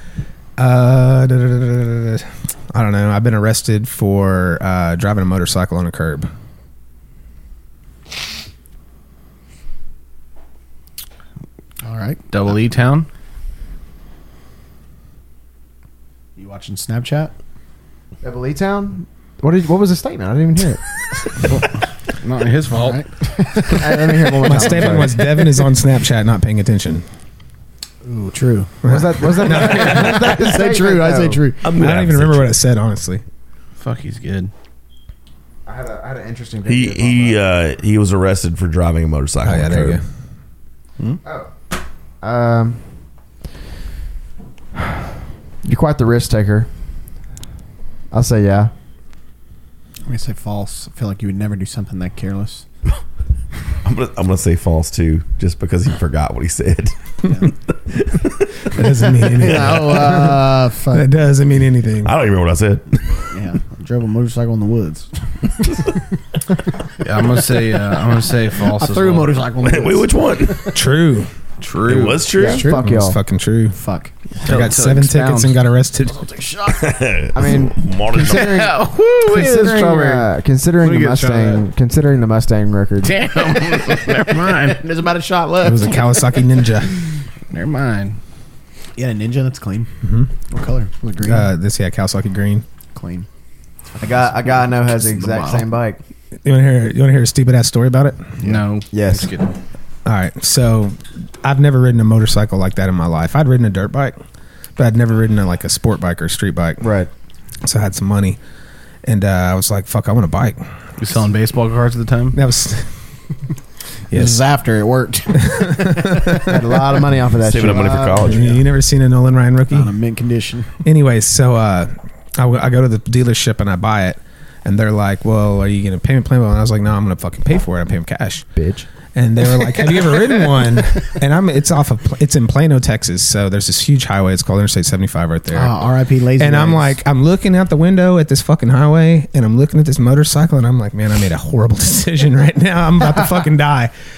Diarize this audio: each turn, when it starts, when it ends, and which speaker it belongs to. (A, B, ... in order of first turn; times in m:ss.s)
0:00.6-0:06.3 A
0:11.8-0:12.2 B
0:12.3-0:13.1 C
0:16.4-0:17.3 B
0:18.2-0:20.8 D
0:22.2-0:23.0 C
0:22.7-0:25.2 B
0:23.7-0:25.3 D
0:24.4-0:27.0 A
0:28.0-0:28.7 B
0:28.8-0:30.3 A
0:28.8-0:31.5 D
0:29.4-0:31.6 B
0:31.6-0:32.5 E
0:31.8-0:33.2 A
0:33.8-0:34.5 C
0:35.7-0:37.5 D
0:36.7-0:40.0 E
0:39.4-0:40.0 A
0:41.2-0:41.5 D
0:42.2-0:42.8 D
0:45.6-0:46.7 D
0:48.1-0:48.7 D
0:50.1-0:52.6 B
0:53.8-0:57.0 E
0:57.3-0:57.5 B
0:57.7-0:58.5 E
0:58.7-1:02.1 A
0:59.4-1:01.1 B
0:59.5-0:59.8 E
1:02.0-1:03.0 E
1:03.3-1:05.1 B
1:07.0-1:09.3 C
1:08.6-1:10.8 B
1:09.6-1:10.7 E
1:10.7-1:11.3 A
1:11.6-1:12.3 C
1:11.8-1:12.7 E
1:12.4-1:13.2 D
1:12.4-1:12.9 B
1:12.7-1:13.8 A
1:13.8-1:14.2 B
1:14.4-1:15.5 C
1:14.4-1:16.3 A
1:16.6-1:18.7 E
1:17.3-1:23.2 D
1:18.3-1:20.3 C
1:20.8-1:21.6 C
1:23.0-1:24.8 C
1:23.6-1:26.0 B
1:25.6-1:27.0 A
1:27.5-1:28.2 C
1:29.0-1:29.9 B
1:30.0-1:30.3 A
1:30.5-1:31.5 B
1:31.2-1:32.6 A
1:33.0-1:33.3 B
1:34.0-1:36.0 D
1:35.1-1:35.6 C
1:36.4-1:38.2 A
1:38.4-1:39.5 C
1:38.9-1:39.3 D
1:40.0-1:44.2 A
1:44.8-1:46.9 A
1:46.8-1:47.1 D
1:47.6-1:48.4 A
1:49.0-1:50.6 A
1:51.0-1:52.4 C
1:52.3-1:52.9 A
1:54.1-1:56.4 B
1:55.4-1:56.4 A
1:56.5-1:58.6 D
1:57.4-1:58.5 E
1:58.3-1:59.9 A
1:59.7-2:00.7 B
2:00.8-2:08.4 A
2:08.6-2:08.9 D
2:09.2-2:15.7 A
2:15.5-2:17.0 B
2:16.4-2:23.9 A